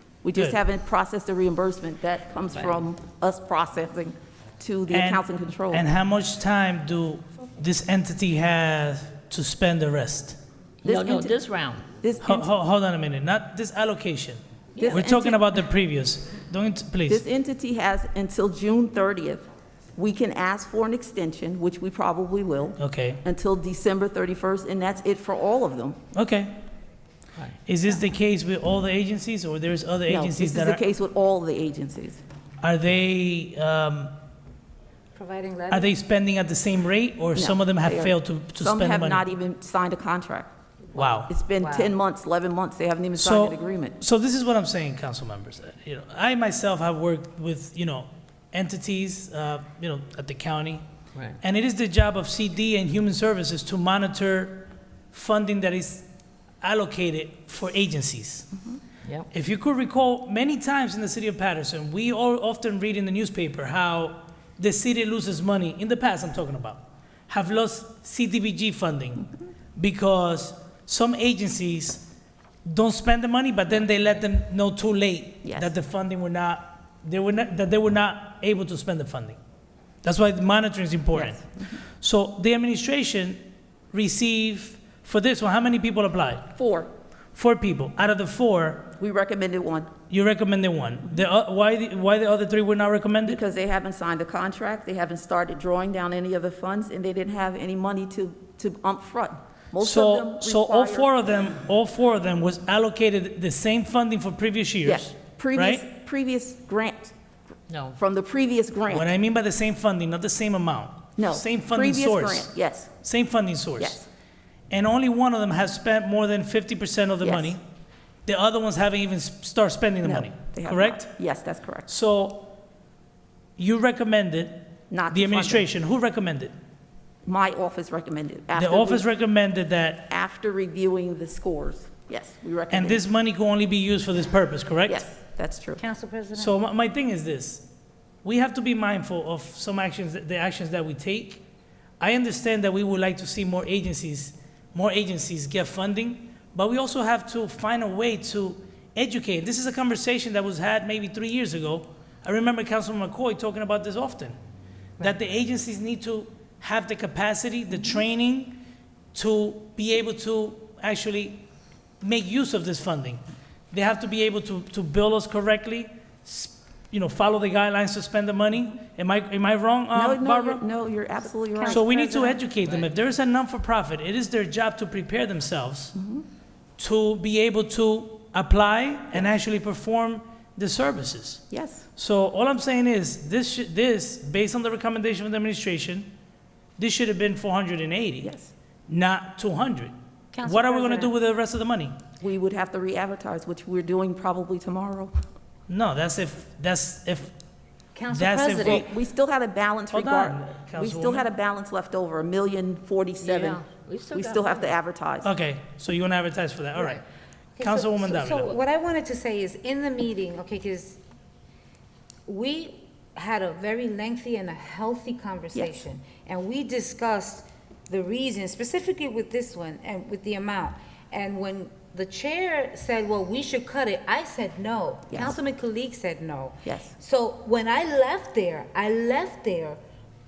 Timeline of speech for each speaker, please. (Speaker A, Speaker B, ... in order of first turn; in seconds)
Speaker A: 0.2-5.8, 10.8-11.3, 12.0-12.5, 14.8-15.5, 17.1-19.4, 19.9-26.0, 30.1-32.2, 37.4-40.5, 41.3-44.0, 75.4-75.7, 86.5-86.9, 89.0-89.9, 93.2-101.1, 104.8-107.1, 107.9-109.1, 111.2-112.9, 113.8-114.1, 117.2-117.5, 120.0-121.9, 124.9-125.7, 127.2-129.1, 130.1-133.0, 134.9-135.8, 169.9-172.3, 175.9-176.2, 181.5-181.9, 188.2-188.5, 192.2-195.1, 198.6-203.6, 204.1-205.3, 215.5-215.8, 225.1-225.3, 226.6-226.9
Speaker B: 4.9-10.4, 12.2-17.2, 22.8-23.2, 26.1-26.6, 27.6-30.8, 32.6-34.1, 35.7-39.2, 40.9-41.3, 43.1-50.8, 51.4-56.0, 56.6-58.5, 59.3-72.0, 72.7-79.4, 80.0-86.5, 87.3-88.9, 90.1-93.4, 99.8-105.8, 108.9-112.5, 113.0-114.0, 114.7-117.6, 118.2-121.2, 121.9-122.5, 123.6-126.5, 128.5-130.1, 132.7-135.1, 136.3-137.7, 138.2-141.4, 142.0-154.4, 155.0-158.6, 159.1-161.4, 162.0-170.6, 171.7-175.9, 176.8-181.4, 182.0-186.1, 186.8-188.3, 188.9-189.9, 190.4-191.9, 195.7-197.3, 198.1-198.9, 199.9-201.3, 205.2-207.0, 207.6-208.6
Speaker C: 10.8-11.8, 107.7-108.0, 203.2-204.7
Speaker D: 35.1-35.9, 41.0-42.0, 135.8-136.6, 171.5-172.4, 190.3-191.1, 197.9-198.9, 206.8-207.0, 207.6-211.0, 212.3-229.8